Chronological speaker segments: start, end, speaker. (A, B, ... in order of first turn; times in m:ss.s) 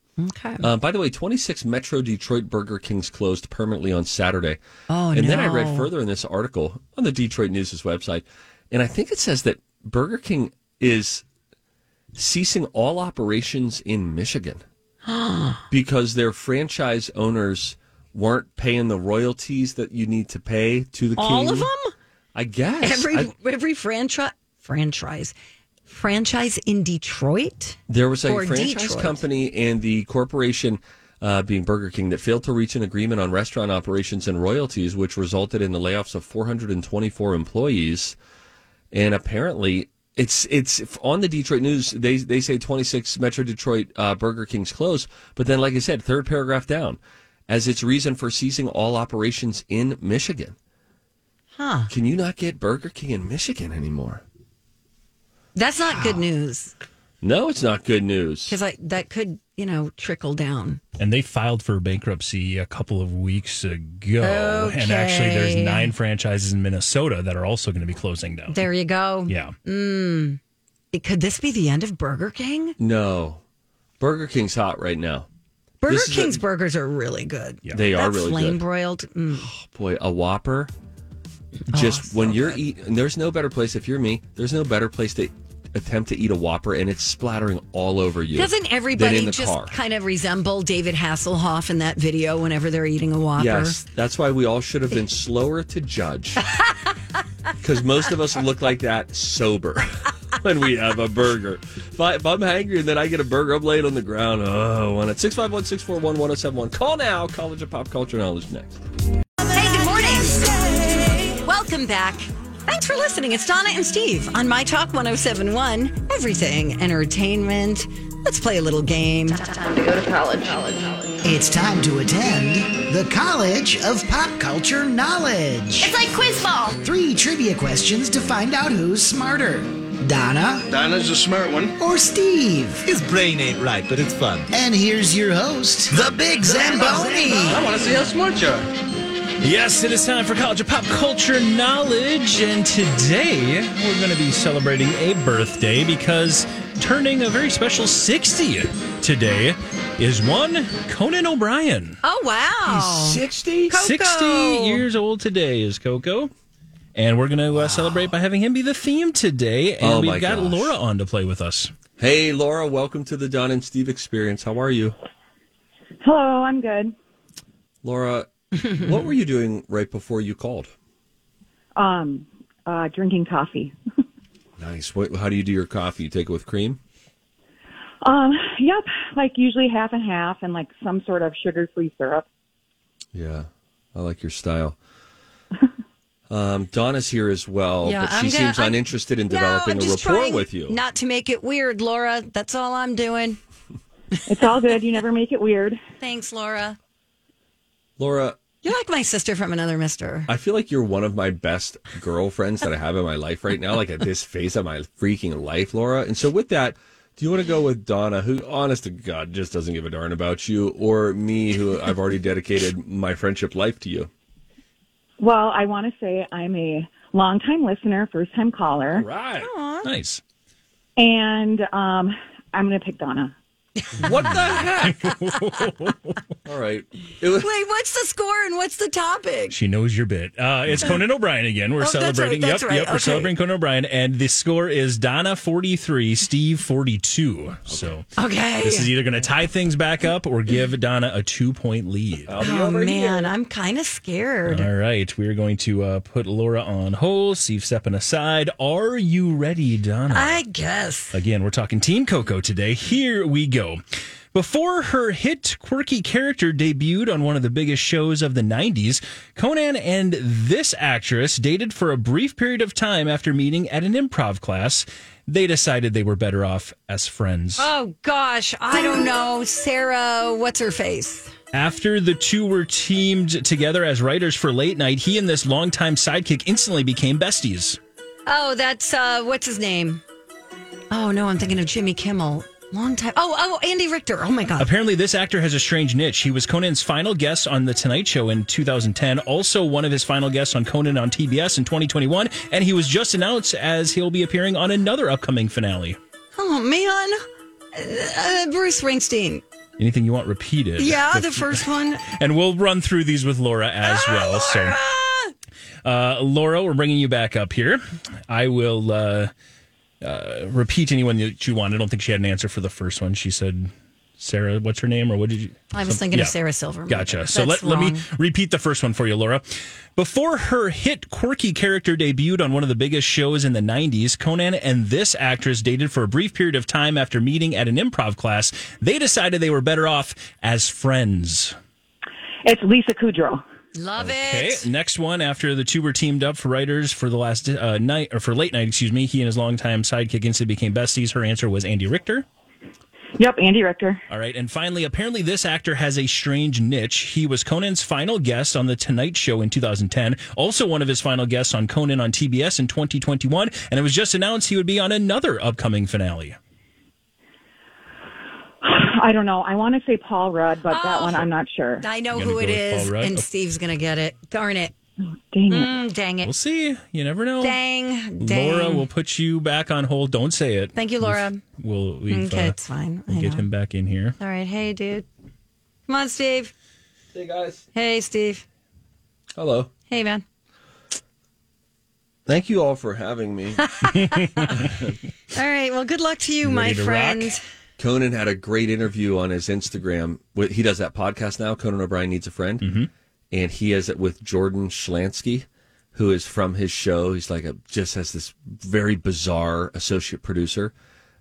0:00.2-0:00.7 A
0:00.6-0:04.6 B
0:04.9-0:05.9 A
0:05.1-0:11.2 B
0:12.1-0:14.6 B
0:15.0-0:15.6 A
0:15.7-0:21.7 B
0:21.2-0:21.9 A
0:22.3-0:23.3 B
0:22.8-0:25.3 A
0:25.9-0:29.2 A
0:27.9-0:38.2 B
0:38.9-0:50.5 B
0:51.6-0:51.9 A
0:51.9-0:54.2 B
0:55.5-0:56.7 A
0:57.2-0:58.6 B
0:58.5-1:00.8 A
1:01.0-1:08.6 C
1:04.2-1:05.9 A
1:08.5-1:10.4 A
1:09.3-1:09.5 C
1:10.9-1:12.8 A
1:12.8-1:13.4 B
1:14.0-1:15.3 B
1:15.8-1:19.5 A
1:15.8-1:16.4 B
1:17.7-1:18.6 B
1:19.3-1:20.7 B
1:21.7-1:22.6 A
1:21.7-1:29.7 B
1:28.3-1:33.8 A
1:33.4-1:36.5 B
1:37.6-1:48.8 B
1:49.5-2:01.1 A
2:01.2-2:06.0 D
2:05.8-2:06.8 A
2:06.8-2:10.7 D
2:11.8-2:12.8 D
2:12.8-2:14.5 E
2:14.5-2:17.8 D
2:15.9-2:17.8 E
2:19.4-2:32.0 C
2:32.0-2:34.8 A
2:32.6-2:33.8 B
2:33.7-2:36.3 C
2:36.9-2:41.7 C
2:39.8-2:40.8 B
2:42.0-2:45.0 B
2:46.0-2:46.9 F
2:47.8-2:50.7 B
2:51.8-2:53.7 F
2:54.6-2:56.8 B
2:58.0-3:02.2 F
3:03.1-3:04.8 B
3:06.3-3:10.8 B
3:07.8-3:13.4 A
3:14.3-3:15.8 F
3:16.0-3:16.8 A
3:18.0-3:18.4 B
3:18.6-3:20.3 A
3:20.3-3:34.1 B
3:35.2-3:39.1 F
3:38.9-3:39.5 B
3:39.4-3:39.9 A
3:39.8-3:40.2 C
3:41.0-3:43.3 F
3:43.9-3:44.3 A
3:44.0-3:45.0 B
3:44.8-3:46.2 C
3:46.4-3:47.5 B
3:47.4-3:49.6 A
3:49.5-3:58.1 C
3:51.8-3:53.3 A
3:58.2-3:58.9 A
3:58.6-4:02.4 C
4:02.3-4:03.3 B
4:02.4-4:04.7 A
4:04.5-4:10.4 C
4:10.1-4:11.2 A
4:11.1-4:13.8 C
4:14.3-4:27.7 C
4:27.6-4:31.3 A
4:31.5-4:37.8 C
4:38.2-4:40.0 A
4:40.9-4:44.7 A
4:44.6-4:56.0 C
4:56.3-4:59.4 A
4:59.8-5:04.8 C
5:00.8-5:02.0 A
5:03.8-5:05.3 A
5:05.8-5:09.3 C
5:10.0-5:16.3 C
5:15.7-5:18.0 A
5:16.9-5:31.5 C
5:32.4-5:33.4 F
5:33.7-5:34.7 A
5:34.0-5:42.2 C
5:43.2-5:44.0 F
5:44.1-5:56.4 C
5:58.6-6:01.8 F
6:00.7-6:01.2 A
6:01.8-6:04.7 A
6:02.1-6:03.2 C
6:05.3-6:05.7 F
6:05.5-6:06.3 A
6:06.2-6:07.6 C
6:07.4-6:08.9 A
6:08.2-6:12.6 C
6:10.7-6:11.4 A
6:12.1-6:13.4 A
6:13.1-6:14.2 C
6:14.2-6:15.1 A
6:15.9-6:16.5 A
6:17.1-6:17.6 B
6:17.7-6:18.4 A
6:19.4-6:19.7 B
6:19.9-6:20.2 A
6:22.2-6:23.6 B
6:23.7-6:24.5 A
6:24.5-6:25.0 B
6:25.3-6:27.4 A
6:26.4-6:27.3 C
6:27.8-6:32.7 B
6:32.6-6:32.9 C
6:33.3-6:40.7 B